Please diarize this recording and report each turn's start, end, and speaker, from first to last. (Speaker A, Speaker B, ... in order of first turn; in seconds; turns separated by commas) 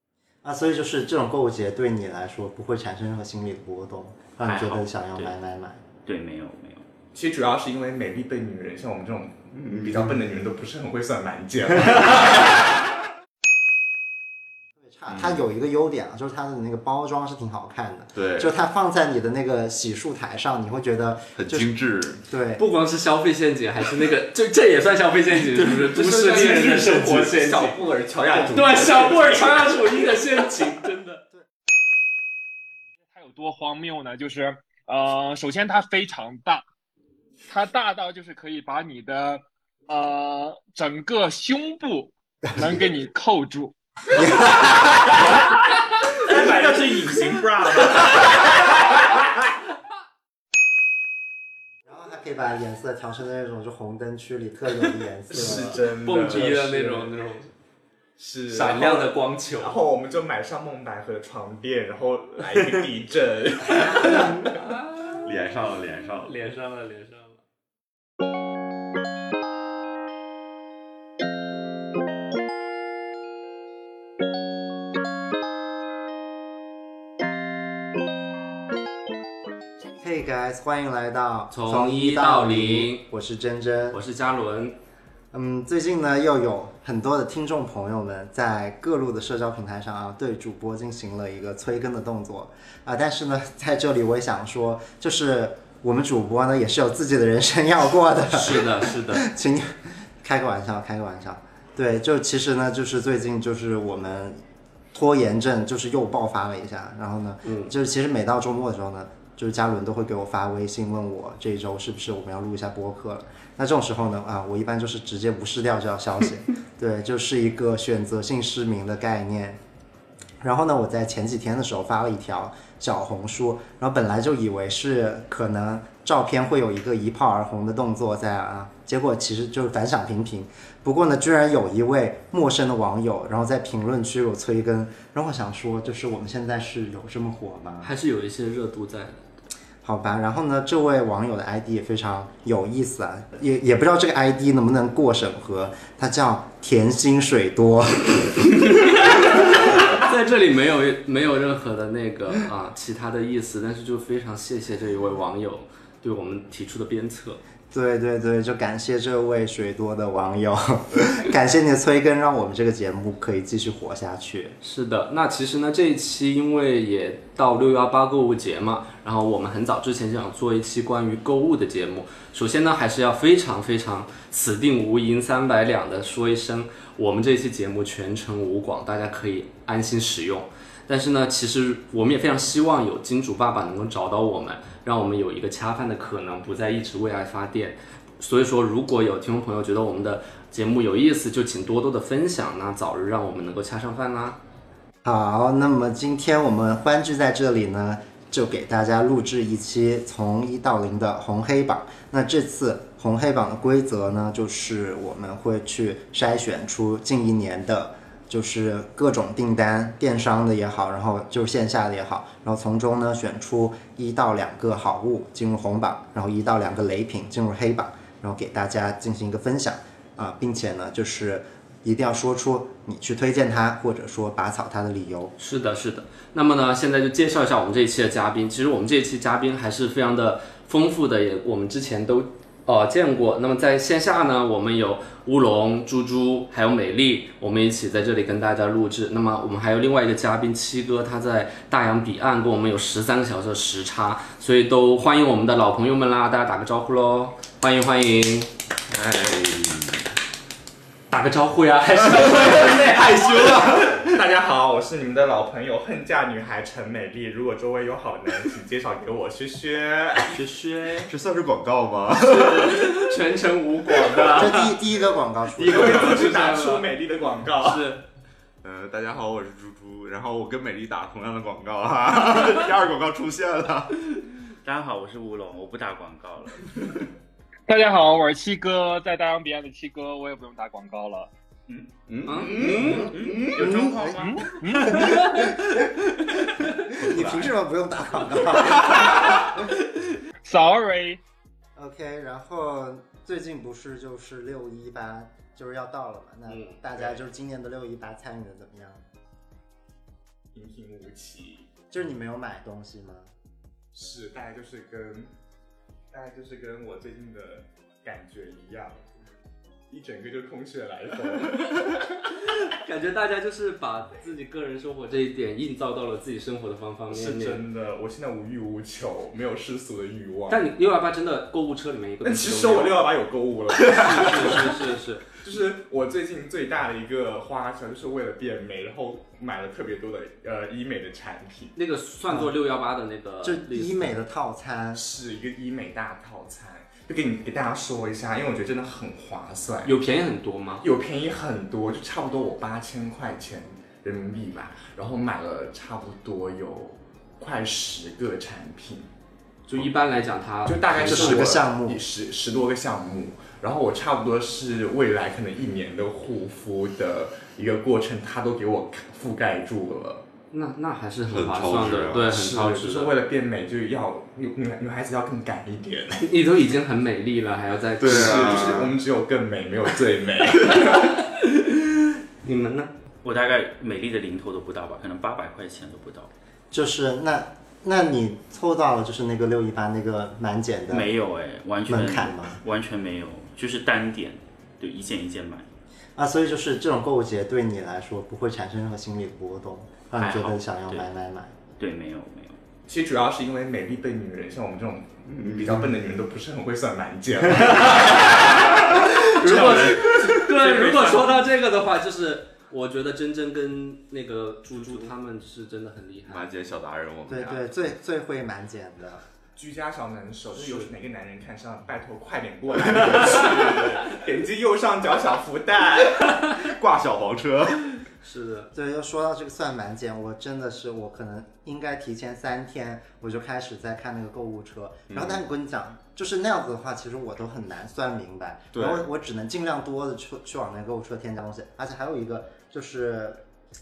Speaker A: 0.4-5.8, Speaker B: 4.4-5.3, Speaker B: 6.0-6.8, Speaker C: 7.1-12.8, Speaker D: 9.5-10.0, Speaker A: 14.8-21.7, Speaker D: 15.1-15.4, Speaker D: 18.1-18.5, Speaker D: 21.4-22.2, Speaker A: 22.3-22.6, Speaker E: 22.6-31.2, Speaker C: 25.6-29.7, Speaker F: 33.1-36.6, Speaker F: 37.5-43.7, Speaker A: 44.1-45.1, Speaker C: 46.1-48.3, Speaker B: 46.3-48.3, Speaker A: 51.9-56.5, Speaker C: 55.3-57.1, Speaker E: 55.3-57.5, Speaker C: 58.2-64.5, Speaker E: 58.5-59.8, Speaker E: 64.1-65.1, Speaker D: 65.2-66.3, Speaker E: 66.2-67.4, Speaker A: 79.9-84.0, Speaker E: 81.5-83.0, Speaker E: 83.9-84.7, Speaker A: 85.3-104.4, Speaker E: 98.3-99.2, Speaker A: 104.9-119.6, Speaker E: 107.4-107.7, Speaker A: 120.4-137.9, Speaker E: 137.8-139.2, Speaker A: 139.8-148.5, Speaker E: 148.8-157.4, Speaker A: 157.7-164.6, Speaker E: 164.6-194.4, Speaker A: 195.0-225.3, Speaker E: 225.4-248.5, Speaker D: 248.9-250.0, Speaker E: 251.1-253.8, Speaker D: 252.2-254.2, Speaker C: 254.1-260.3, Speaker E: 260.3-261.1, Speaker D: 261.0-263.1, Speaker E: 262.1-264.7, Speaker A: 264.3-266.3, Speaker E: 265.6-266.9, Speaker C: 265.6-267.9, Speaker E: 267.6-268.0, Speaker D: 268.6-274.2, Speaker B: 274.6-277.0, Speaker F: 277.7-281.3, Speaker D: 282.1-284.1, Speaker E: 282.2-283.1, Speaker B: 282.4-285.0, Speaker A: 283.6-284.2, Speaker F: 284.2-285.2, Speaker A: 285.3-285.6, Speaker A: 286.9-289.7, Speaker D: 286.9-287.5, Speaker D: 289.0-289.4, Speaker F: 290.4-291.2, Speaker A: 291.8-299.0, Speaker E: 296.5-296.8, Speaker C: 296.9-297.2, Speaker C: 300.5-301.7, Speaker A: 301.9-303.3, Speaker C: 303.9-305.3, Speaker C: 306.1-309.2, Speaker C: 309.9-312.1, Speaker E: 312.5-317.6, Speaker C: 317.1-320.6, Speaker E: 320.5-323.0, Speaker C: 322.2-331.7, Speaker E: 323.8-325.3, Speaker E: 331.8-334.2, Speaker A: 333.4-335.0, Speaker C: 334.9-340.0, Speaker E: 339.8-340.8, Speaker C: 340.8-349.1, Speaker E: 349.7-351.6, Speaker C: 350.6-360.2, Speaker A: 351.0-352.0, Speaker E: 360.5-363.1, Speaker D: 361.3-362.3, Speaker C: 362.2-366.3, Speaker E: 366.2-368.8, Speaker D: 368.0-368.9, Speaker C: 368.0-371.1, Speaker E: 370.7-371.9, Speaker E: 372.4-372.9, Speaker B: 373.2-376.3, Speaker A: 376.7-381.1, Speaker B: 380.9-385.7, Speaker A: 381.9-382.6, Speaker A: 386.2-391.5, Speaker B: 390.1-391.1, Speaker B: 391.8-392.6, Speaker C: 392.9-401.4, Speaker D: 395.3-395.9, Speaker E: 398.8-406.5, Speaker D: 406.3-407.7, Speaker A: 407.3-409.2, Speaker C: 409.6-416.4, Speaker E: 410.5-410.9, Speaker D: 416.4-418.0, Speaker E: 418.2-418.7, Speaker A: 418.7-433.4, Speaker D: 425.1-425.4, Speaker D: 428.7-429.0